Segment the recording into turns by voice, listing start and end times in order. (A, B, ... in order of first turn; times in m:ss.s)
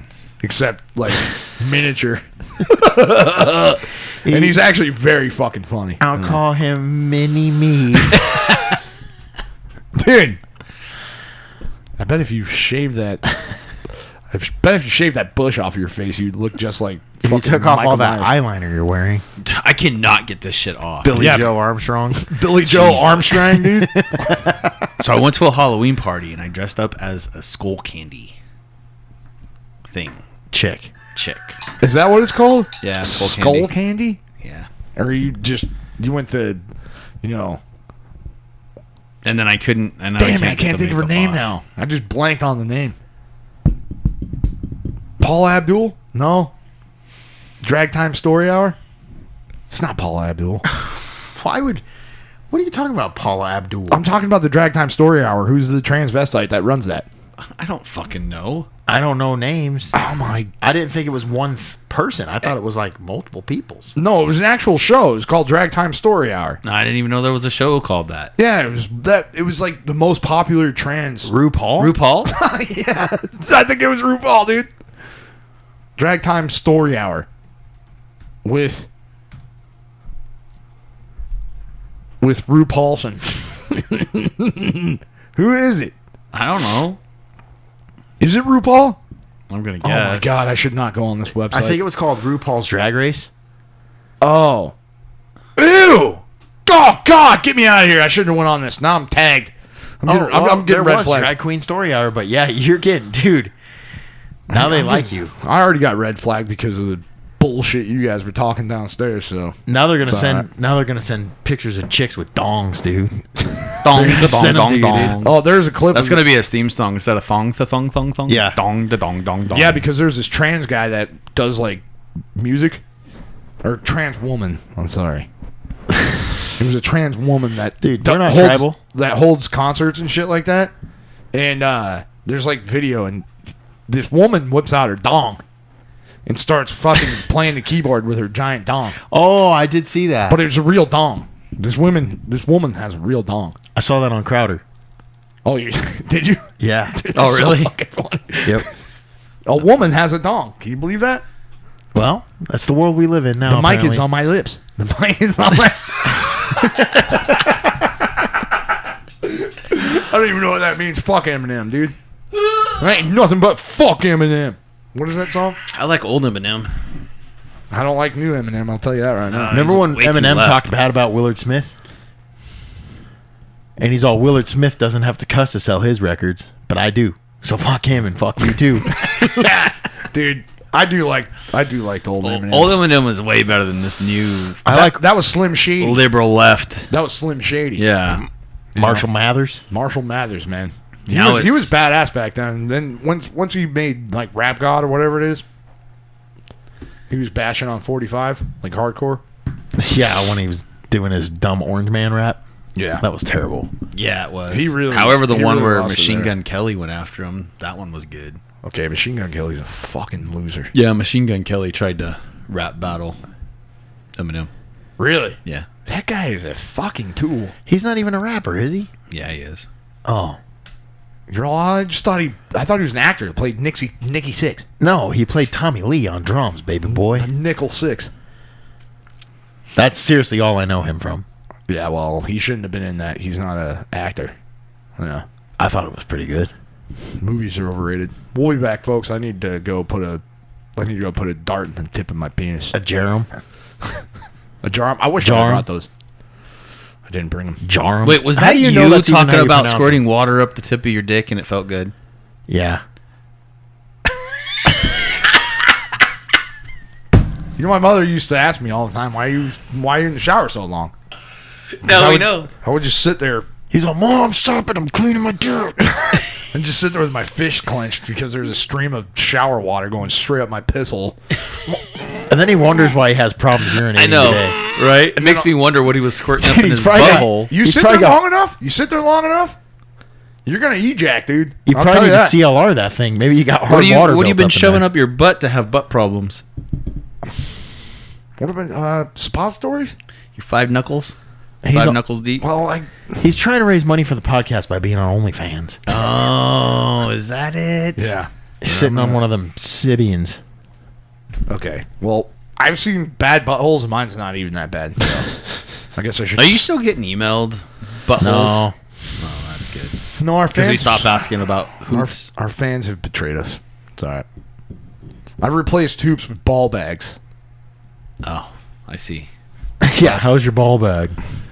0:00.4-0:06.4 A
0:04.2-0:04.6 B
0:06.0-0:08.2 B
0:08.1-0:08.6 A
0:10.0-0:10.4 A
0:12.0-0:13.4 A
0:14.3-0:18.3 A
0:17.2-0:19.2 B
0:19.4-0:21.4 C
0:21.0-0:24.8 B
0:21.1-0:21.5 A
0:22.1-0:24.4 A
0:25.0-0:28.3 C
0:29.9-0:30.2 C
0:30.5-0:30.9 B
0:31.1-0:31.6 C
0:31.8-0:34.2 A
0:32.8-0:33.7 C
0:34.4-0:34.7 C
0:35.0-0:36.6 A
0:37.2-0:37.6 A
0:39.2-0:41.4 C
0:40.2-0:42.9 A
0:45.2-0:46.5 A
0:47.6-0:48.8 A
0:49.7-0:50.6 A
0:50.8-0:51.8 B
0:52.5-0:54.0 B
0:53.9-0:57.1 A
0:57.4-0:58.7 C
0:58.9-0:59.9 B
0:59.9-1:00.5 A
1:00.6-1:03.9 B
1:04.0-1:06.6 A
1:06.6-1:08.3 C
1:08.4-1:11.3 A
1:11.2-1:11.9 B
1:11.8-1:12.3 C
1:12.3-1:14.7 A
1:16.0-1:17.3 A
1:18.4-1:18.9 A
1:22.2-1:25.9 A
1:26.3-1:27.0 C
1:28.2-1:29.0 A
1:29.5-1:30.3 C
1:29.8-1:31.8 A
1:31.5-1:33.3 B
1:34.2-1:34.7 A
1:35.6-1:41.3 A
1:40.0-1:43.5 B
1:44.5-1:45.3 B
1:44.5-1:50.5 A
1:49.7-1:53.2 B
1:53.8-1:55.4 C
1:53.9-1:55.2 B
1:54.0-1:54.4 A
1:55.1-1:56.2 A
1:55.9-1:59.8 C
1:58.3-1:58.6 B
1:59.5-2:01.8 A
2:02.4-2:02.8 A
2:03.6-2:05.3 A
2:06.6-2:10.7 A
2:07.8-2:08.8 B
2:11.3-2:13.3 A
2:13.9-2:15.4 A
2:16.2-2:19.0 A
2:19.1-2:20.4 B
2:20.3-2:23.6 A
2:23.7-2:24.6 B
2:25.4-2:28.7 A
2:26.6-2:27.0 B
2:27.1-2:27.7 C
2:29.4-2:31.2 A
2:31.9-2:34.0 B
2:33.5-2:36.8 A
2:39.2-2:41.9 A
2:42.8-2:45.6 A
2:45.7-2:46.7 C
2:47.7-2:49.7 A
2:49.3-2:50.7 C
2:49.5-2:51.7 B
2:53.8-2:59.3 B
2:58.9-3:02.8 A
3:02.2-3:04.6 C
3:04.6-3:05.0 B
3:04.6-3:06.0 A
3:05.8-3:06.9 C
3:06.9-3:07.8 A
3:07.8-3:08.2 C
3:08.7-3:09.0 A
3:08.8-3:09.6 B
3:09.7-3:15.4 A
3:11.1-3:11.7 C
3:17.1-3:19.2 A
3:19.8-3:22.4 B
3:22.8-3:23.0 A
3:23.0-3:23.7 B
3:23.9-3:28.4 C
3:24.5-3:26.3 A
3:28.6-3:30.7 A
3:30.7-3:33.2 C
3:34.2-3:34.5 C
3:35.0-3:37.5 A
3:37.7-3:38.9 B
3:39.1-3:39.7 C
3:40.0-3:40.4 B
3:41.3-3:44.6 A
3:44.8-3:47.3 B
3:46.9-3:48.1 A
3:49.8-3:51.2 B
3:51.7-3:54.3 A
3:55.0-3:55.2 A
3:55.6-3:56.5 B
3:57.2-4:00.2 A
4:00.8-4:02.7 A
4:02.7-4:03.3 B
4:04.6-4:05.9 A
4:05.2-4:05.6 B
4:07.0-4:07.6 A
4:07.6-4:10.0 B
4:08.0-4:11.9 C
4:12.5-4:12.8 B
4:17.6-4:20.9 A
4:21.8-4:22.5 C
4:21.8-4:23.5 A
4:23.7-4:26.2 B
4:26.1-4:31.2 A
4:32.3-4:34.6 B
4:33.9-4:37.5 C
4:35.1-4:35.5 A
4:36.4-4:38.2 B
4:36.9-4:39.6 A
4:40.4-4:42.4 A
4:41.7-4:44.9 B
4:43.7-4:46.4 C
4:48.4-4:50.0 A
4:50.4-4:51.1 C
4:51.6-4:52.0 B
4:51.7-4:52.4 C
4:52.4-4:53.2 A
4:53.2-4:55.8 B
4:55.9-4:58.1 C
4:58.0-4:59.2 A
4:58.6-5:00.4 B
5:01.5-5:05.3 A
5:05.9-5:06.7 A
5:06.4-5:10.0 C
5:08.2-5:08.7 B
5:10.1-5:11.2 A
5:10.5-5:12.3 C
5:11.9-5:14.2 A
5:15.4-5:17.2 A
5:18.2-5:19.3 C
5:19.8-5:21.2 B